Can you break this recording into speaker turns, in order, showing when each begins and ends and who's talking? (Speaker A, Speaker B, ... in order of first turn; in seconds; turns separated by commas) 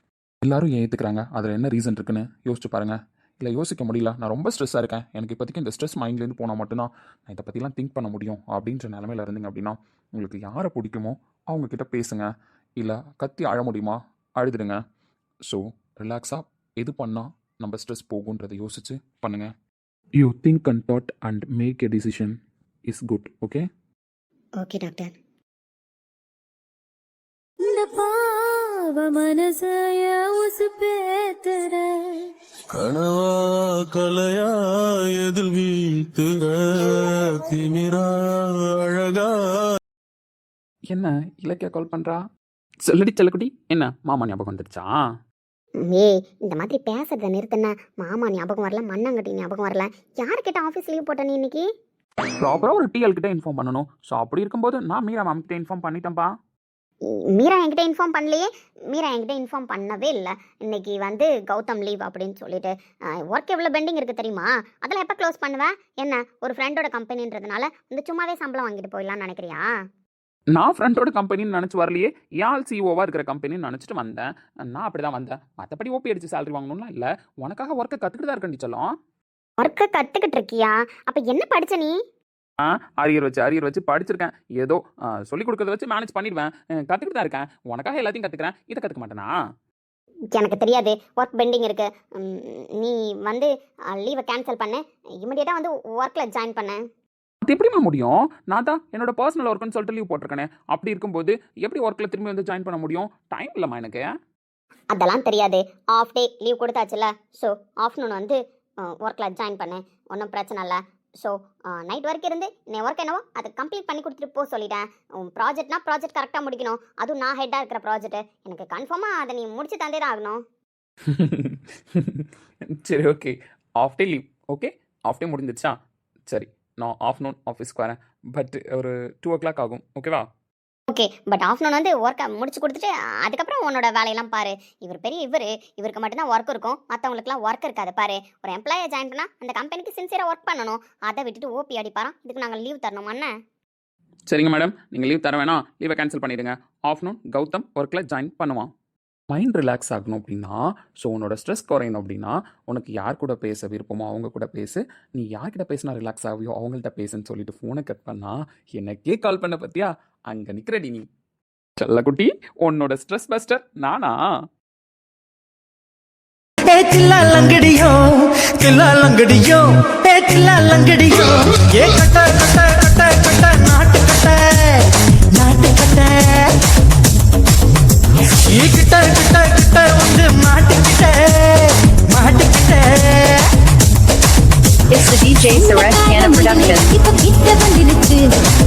Speaker A: 0.4-12.3, Speaker A: 12.8-14.8, Speaker A: 15.5-19.5, Speaker A: 20.2-23.6, Speaker B: 24.6-25.1, Speaker C: 27.6-32.3, Speaker D: 32.7-39.3, Speaker A: 40.9-42.3, Speaker A: 42.9-44.9, Speaker B: 45.8-51.6, Speaker A: 52.4-56.3, Speaker B: 57.1-69.6, Speaker A: 70.5-78.9, Speaker B: 79.6-81.9, Speaker A: 82.6-89.3, Speaker B: 90.3-96.8, Speaker A: 97.4-104.0, Speaker B: 104.9-120.4, Speaker A: 121.1-125.8, Speaker A: 126.3-130.3, Speaker B: 130.9-143.3, Speaker A: 144.3-148.7, Speaker A: 149.3-161.1, Speaker A: 161.8-164.1, Speaker E: 166.6-176.5, Speaker E: 178.5-183.4, Speaker F: 184.9-186.9, Speaker C: 185.5-188.2